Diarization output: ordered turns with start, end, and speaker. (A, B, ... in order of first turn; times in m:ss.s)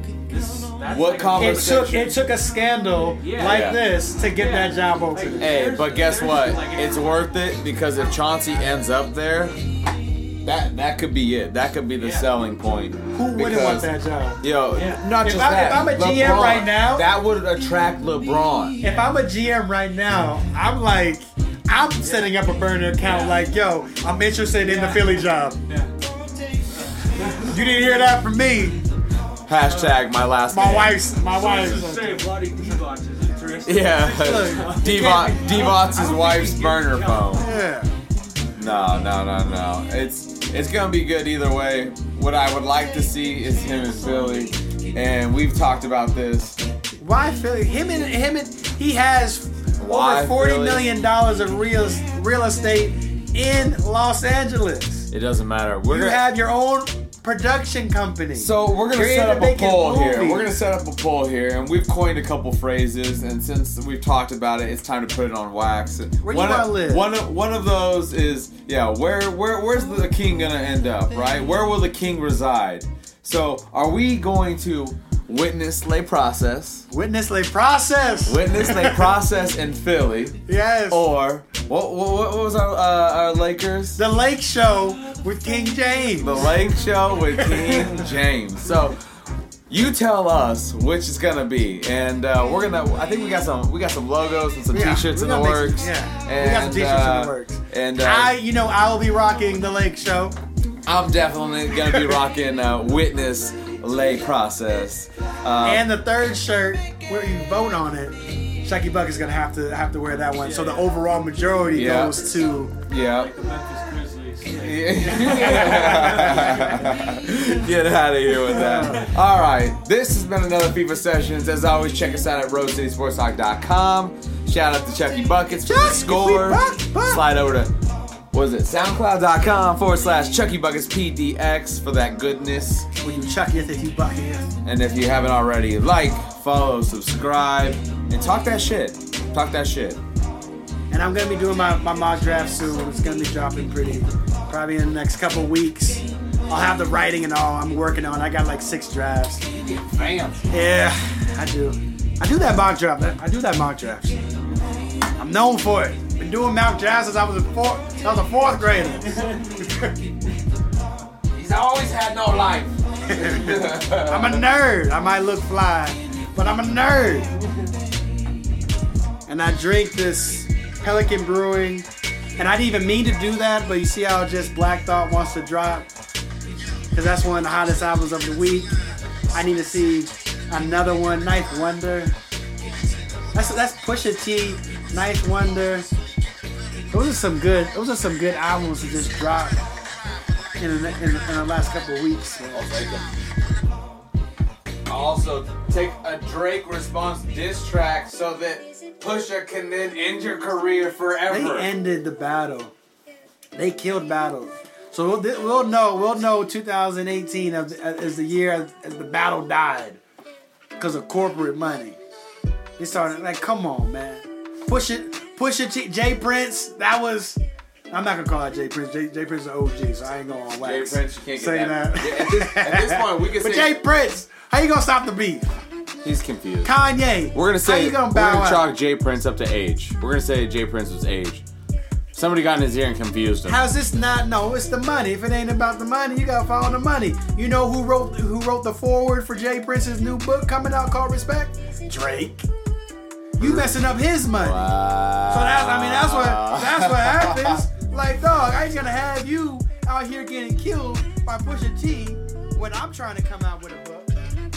0:00.2-0:02.2 A
0:00.9-0:02.2 B
0:01.3-0:05.6 C
0:03.2-0:03.8 A
0:03.4-0:03.8 B
0:04.3-0:08.7 A
0:05.4-0:09.6 B
0:10.4-0:18.8 B
0:12.0-0:12.3 A
0:13.1-0:14.4 C
0:14.8-0:15.0 A
0:15.2-0:17.1 C
0:18.8-0:25.6 C
0:22.0-0:22.3 A
0:23.0-0:23.4 A
0:24.6-0:25.9 A
0:26.7-0:27.8 A
0:27.4-0:28.8 C
0:29.5-0:31.0 B
0:29.6-0:30.0 A
0:30.5-0:32.3 C
0:31.2-0:37.5 A
0:33.6-0:37.5 B
0:34.1-0:34.9 C
0:37.4-0:37.9 C
0:38.6-0:46.6 B
0:47.0-0:55.1 C
0:49.8-0:50.9 B
0:55.1-0:56.3 B
0:55.9-1:00.6 C
0:58.4-1:16.9 B
1:06.2-1:07.1 C
1:16.9-1:19.1 C
1:18.3-1:24.0 B
1:20.5-1:21.0 C
1:24.0-1:26.6 C
1:26.2-1:29.0 B
1:27.4-1:28.1 C
1:29.7-1:38.3 B
1:34.7-1:40.4 C
1:40.9-1:45.9 B
1:41.9-1:42.1 C
1:45.6-1:52.7 C
1:50.4-1:50.9 A
1:51.7-1:52.3 B
1:52.9-1:53.3 B
1:53.0-1:57.1 A
1:54.5-2:07.7 B
1:55.7-1:56.6 C
1:58.4-1:59.1 C
1:58.8-1:59.1 A
2:05.7-2:07.2 C
2:08.3-2:12.9 B
2:13.0-2:14.5 C
2:14.6-2:20.0 B
2:20.9-2:29.4 C
2:29.5-2:30.4 B
2:30.5-2:34.2 C
2:35.2-2:39.9 C
2:39.1-2:39.5 A
2:41.3-2:44.5 B
2:43.0-2:47.3 C
2:49.3-2:51.9 C
2:52.4-2:55.9 C
2:56.9-2:58.7 C
2:59.3-3:02.1 C
3:03.3-3:05.9 C
3:06.9-3:09.6 C
3:10.6-3:12.7 C
3:12.5-3:13.1 B
3:14.9-3:21.7 B
3:21.3-3:22.7 C
3:23.6-3:30.0 C
3:30.8-3:32.0 C
3:32.8-3:37.4 C
3:37.9-3:45.5 C
3:40.6-3:43.8 B
3:46.0-3:46.8 B
3:46.6-3:48.7 C
3:47.3-3:51.4 B
3:52.1-3:53.7 B
3:53.5-4:02.5 C
4:03.4-4:04.7 C
4:03.4-4:07.6 B
4:05.3-4:14.1 C